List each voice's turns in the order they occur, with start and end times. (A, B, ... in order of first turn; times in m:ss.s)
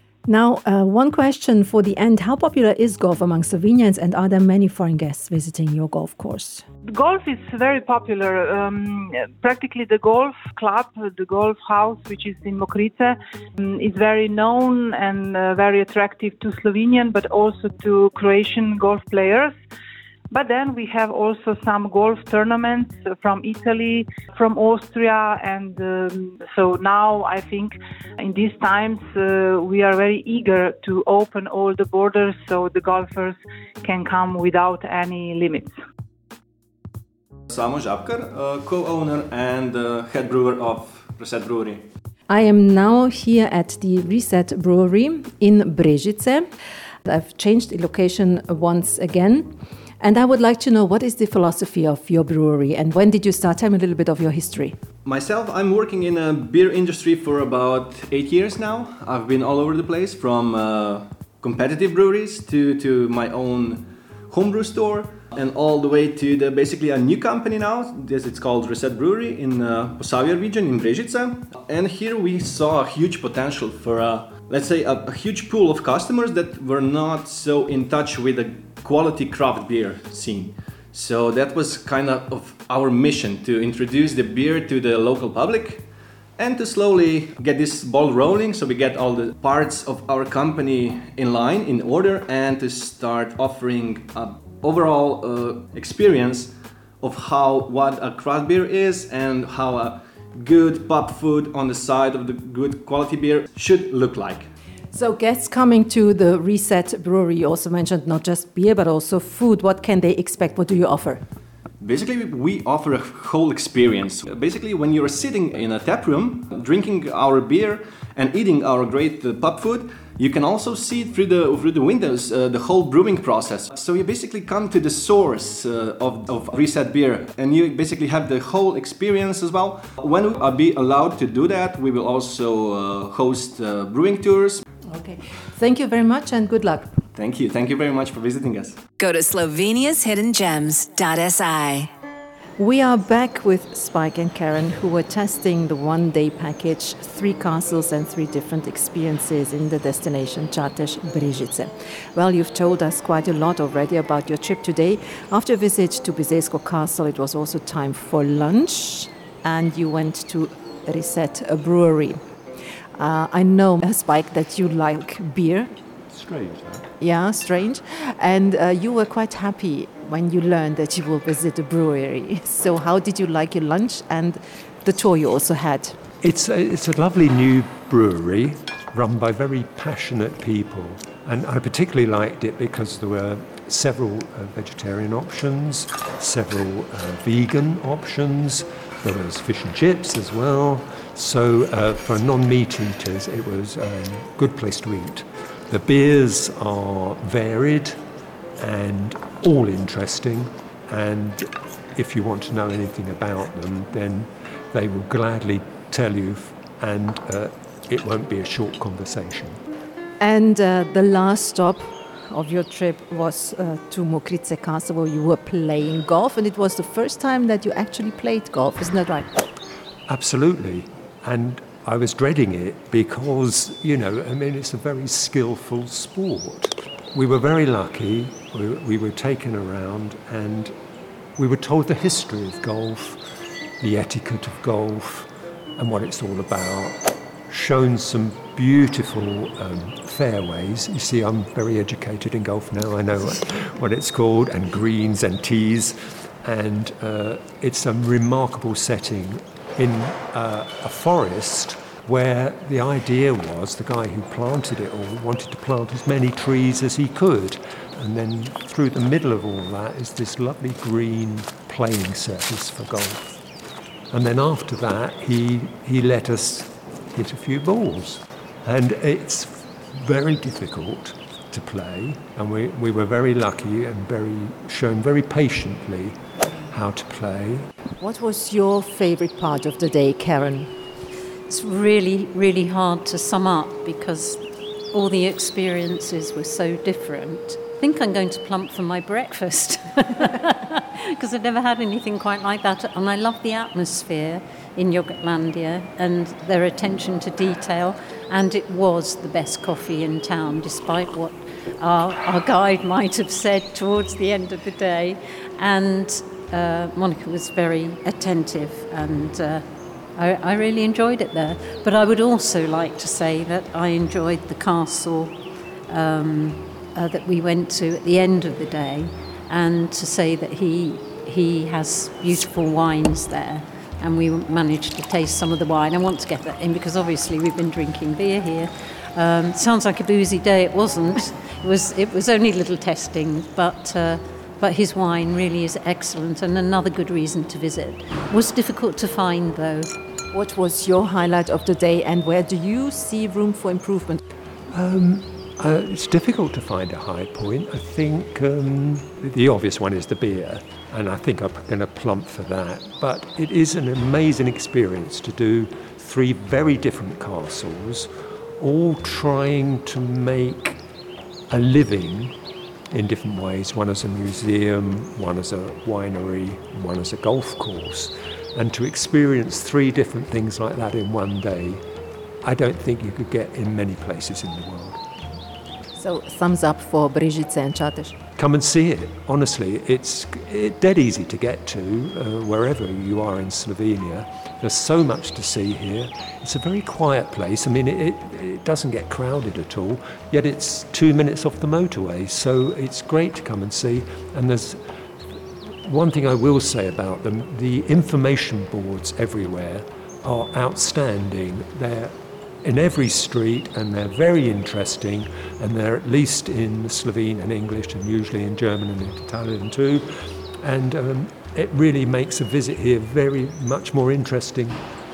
0:00.3-0:06.6 A
0:06.8-0:19.5 B
0:20.3-0:35.7 B
0:37.5-0:41.9 C
0:42.3-0:46.4 A
0:47.0-0:49.5 A
0:50.0-0:54.7 A
0:55.0-1:44.5 C
1:44.9-1:51.2 A
1:51.8-2:14.6 C
2:14.9-2:16.9 A
2:17.1-2:18.8 C
2:19.0-2:21.9 D
2:22.6-2:42.2 A
2:43.0-2:45.7 A
2:46.1-2:46.9 E
2:47.0-2:56.0 A
2:56.2-3:18.0 E
3:18.6-3:29.6 E
3:30.2-3:39.4 A
3:40.1-3:50.7 E
3:51.4-3:53.2 E
3:53.8-3:57.0 E
3:57.5-4:23.4 E
4:24.1-4:36.2 E
4:36.7-4:37.7 E
4:38.0-4:40.7 A
4:41.5-5:09.6 F
5:10.2-5:39.9 F
5:40.3-5:44.2 A
5:44.7-6:00.8 E
6:01.5-6:02.3 E
6:02.9-6:11.8 E
6:12.4-6:15.0 E
6:16.0-6:18.2 A
6:18.4-6:34.8 E
6:35.8-6:50.1 E
6:50.6-6:54.8 E